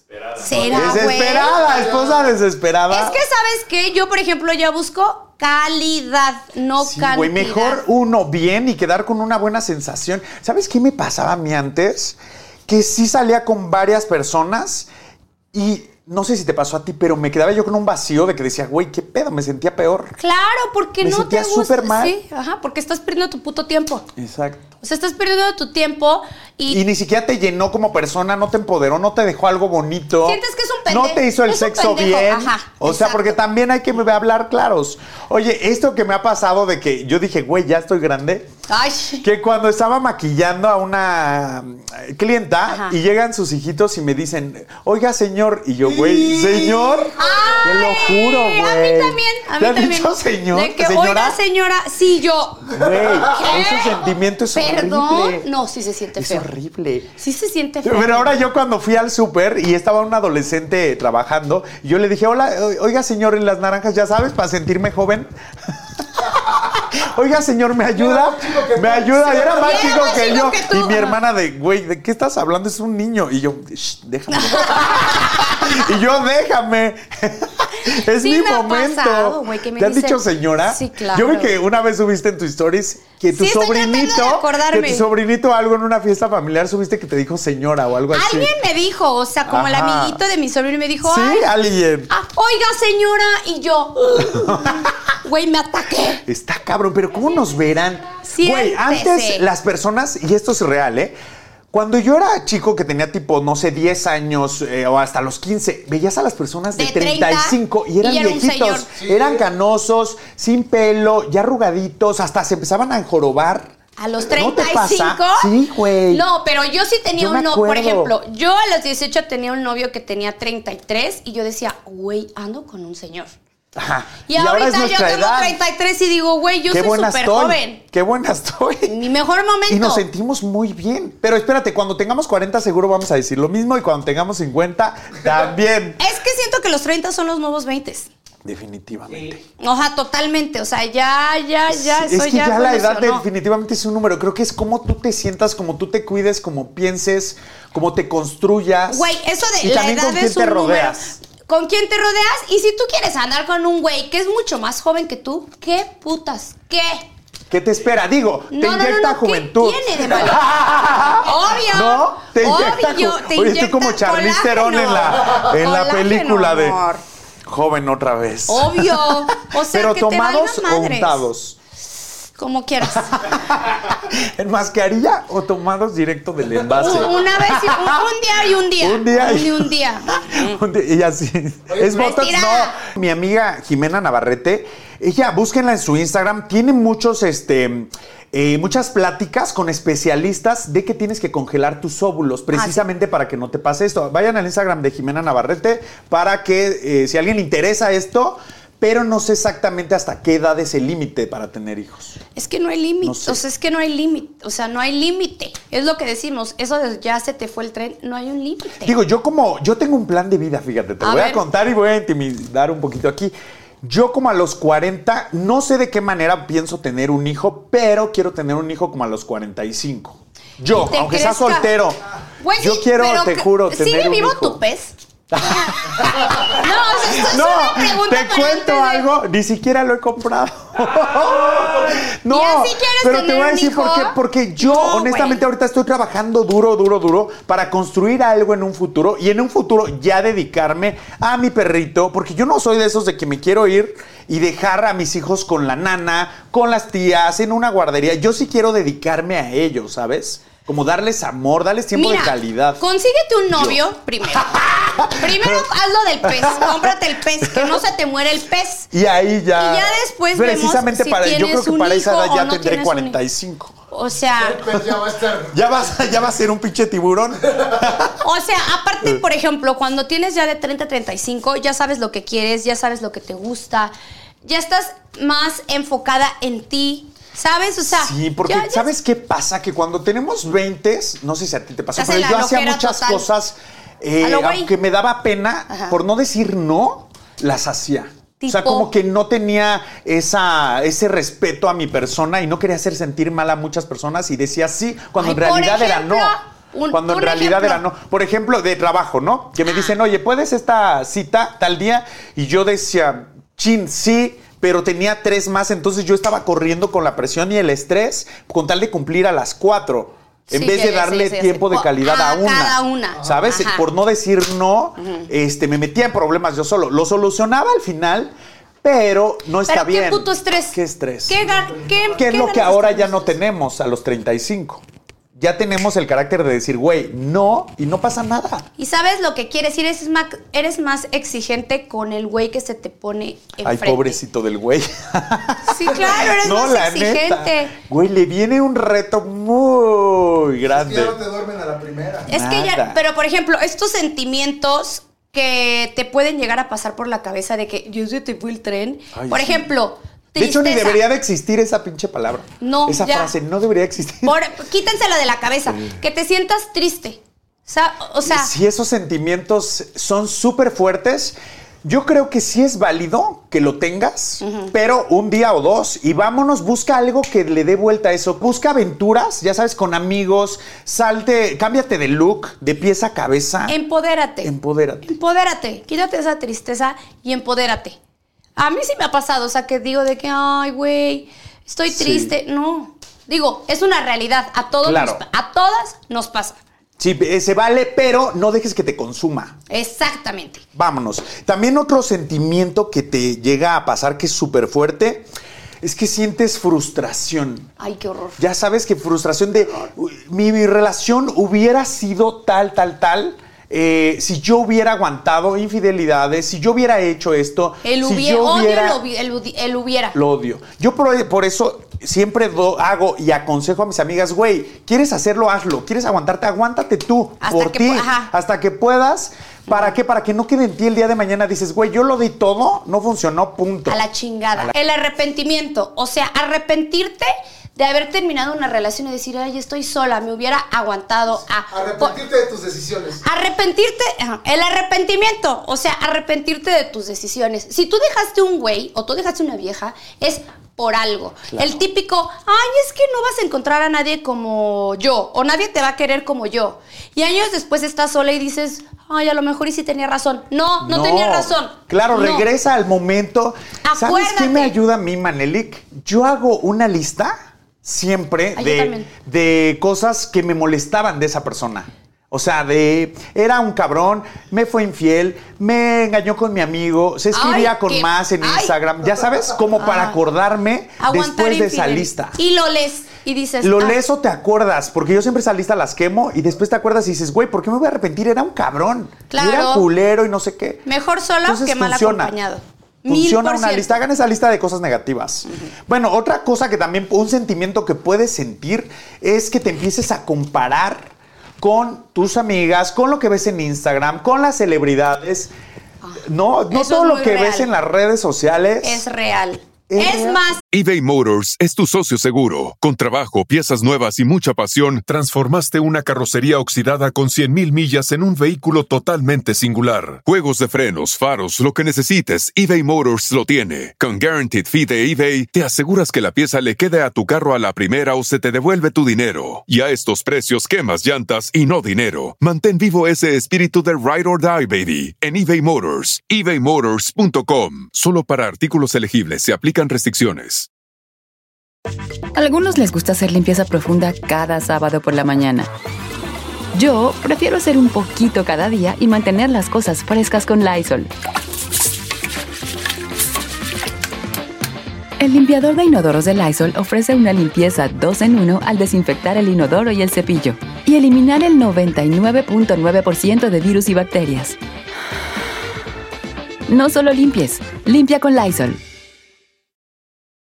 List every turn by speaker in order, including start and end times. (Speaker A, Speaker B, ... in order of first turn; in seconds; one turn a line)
Speaker A: 0.4-1.6
Speaker B: 0.5-2.2
Speaker C: 0.5-3.2
Speaker A: 2.9-7.8
Speaker C: 6.8-14.9
Speaker C: 15.5-20.2
Speaker A: 20.2-24.1
Speaker C: 21.0-22.2
Speaker C: 24.2-24.7
Speaker A: 24.8-26.8
Speaker C: 26.7-38.5
Speaker A: 30.2-33.4
Speaker A: 38.7-39.2
Speaker C: 39.2-51.4
Speaker A: 42.7-43.0
Speaker B: 45.8-47.6
Speaker A: 47.2-56.5
Speaker C: 52.7-55.5
Speaker C: 56.2-57.1
Speaker A: 57.2-58.4
Speaker C: 57.8-88.5
Speaker B: 67.9-70.0
Speaker A: 69.5-71.2
Speaker A: 74.3-75.9
Speaker A: 78.1-81.5
Speaker A: 83.3-85.1
Speaker A: 88.1-91.5
Speaker C: 89.5-90.2
Speaker C: 91.0-92.1
Speaker A: 92.1-96.2
Speaker C: 94.3-94.9
Speaker C: 96.2-101.2
Speaker A: 98.2-99.5
Speaker C: 101.7-113.7
Speaker A: 106.7-108.9
Speaker B: 109.0-109.4
Speaker A: 114.0-115.5
Speaker C: 114.2-116.2
Speaker A: 116.1-123.3
Speaker C: 117.2-118.1
Speaker C: 123.8-125.6
Speaker A: 124.3-127.8
Speaker C: 126.7-129.0
Speaker A: 128.9-130.1
Speaker C: 129.7-136.0
Speaker A: 136.0-138.1
Speaker C: 138.4-139.4
Speaker A: 139.6-143.2
Speaker C: 141.7-151.2
Speaker A: 148.9-157.1
Speaker C: 157.5-166.8
Speaker A: 158.5-160.5
Speaker A: 161.2-167.0
Speaker C: 167.5-171.6
Speaker A: 168.5-171.2
Speaker A: 172.4-173.3
Speaker C: 172.9-178.0
Speaker A: 176.8-180.6
Speaker C: 178.8-202.2
Speaker B: 181.7-182.1
Speaker A: 181.9-182.8
Speaker A: 192.5-192.8
Speaker A: 202.3-209.0
Speaker C: 203.0-203.4
Speaker C: 208.8-222.0
Speaker A: 211.0-211.4
Speaker A: 220.7-221.7
Speaker A: 222.4-224.9
Speaker C: 222.6-224.6
Speaker C: 225.3-252.8
Speaker A: 225.5-229.1
Speaker A: 232.3-235.4
Speaker A: 251.9-258.9
Speaker C: 253.5-253.8
Speaker C: 254.3-255.7
Speaker C: 256.2-257.8
Speaker C: 258.9-263.8
Speaker A: 259.6-263.2
Speaker A: 263.9-264.6
Speaker B: 264.4-266.0
Speaker C: 264.7-268.2
Speaker A: 268.2-273.9
Speaker A: 274.4-278.9
Speaker C: 277.9-296.4
Speaker A: 282.0-283.3
Speaker A: 284.2-284.7
Speaker A: 285.7-285.9
Speaker A: 288.4-288.9
Speaker A: 295.2-297.8
Speaker C: 296.9-321.4
Speaker A: 299.6-300.0
Speaker A: 310.5-313.9
Speaker A: 315.0-315.3
Speaker A: 319.7-323.4
Speaker B: 321.5-322.1
Speaker C: 322.1-324.8
Speaker C: 325.4-328.7
Speaker A: 328.8-334.2
Speaker C: 333.6-341.2
Speaker A: 335.7-337.7
Speaker B: 340.7-342.3
Speaker C: 342.3-343.0
Speaker A: 342.3-351.0
Speaker C: 349.1-349.7
Speaker C: 350.4-354.4
Speaker A: 352.6-353.3
Speaker A: 354.2-358.5
Speaker C: 358.2-373.8
Speaker A: 364.4-364.7
Speaker A: 373.7-374.5
Speaker C: 374.4-375.1
Speaker A: 375.1-378.0
Speaker A: 378.6-386.6
Speaker C: 381.9-382.3
Speaker C: 384.8-385.2
Speaker C: 387.0-389.6
Speaker A: 389.7-390.6
Speaker C: 390.8-395.3
Speaker C: 395.8-397.7
Speaker A: 397.8-398.4
Speaker C: 398.4-409.0
Speaker A: 407.8-410.2
Speaker C: 410.1-424.0
Speaker A: 417.4-418.3
Speaker A: 419.7-419.9
Speaker A: 423.9-432.2
Speaker B: 431.7-433.2
Speaker A: 433.2-452.5
Speaker C: 441.5-441.9
Speaker C: 450.8-472.4
Speaker A: 453.8-454.8
Speaker A: 458.6-459.1
Speaker A: 467.3-468.8
Speaker A: 469.8-470.2
Speaker A: 471.0-474.0
Speaker C: 473.6-480.9
Speaker A: 479.3-479.9
Speaker A: 480.9-484.0
Speaker C: 481.4-482.4
Speaker C: 483.1-495.5
Speaker C: 496.2-499.1
Speaker A: 496.7-497.7
Speaker A: 498.8-500.6
Speaker C: 499.9-500.4
Speaker D: 500.7-530.7
Speaker E: 532.4-535.7
Speaker E: 536.7-541.1
Speaker E: 545.2-554.6
Speaker E: 556.7-558.8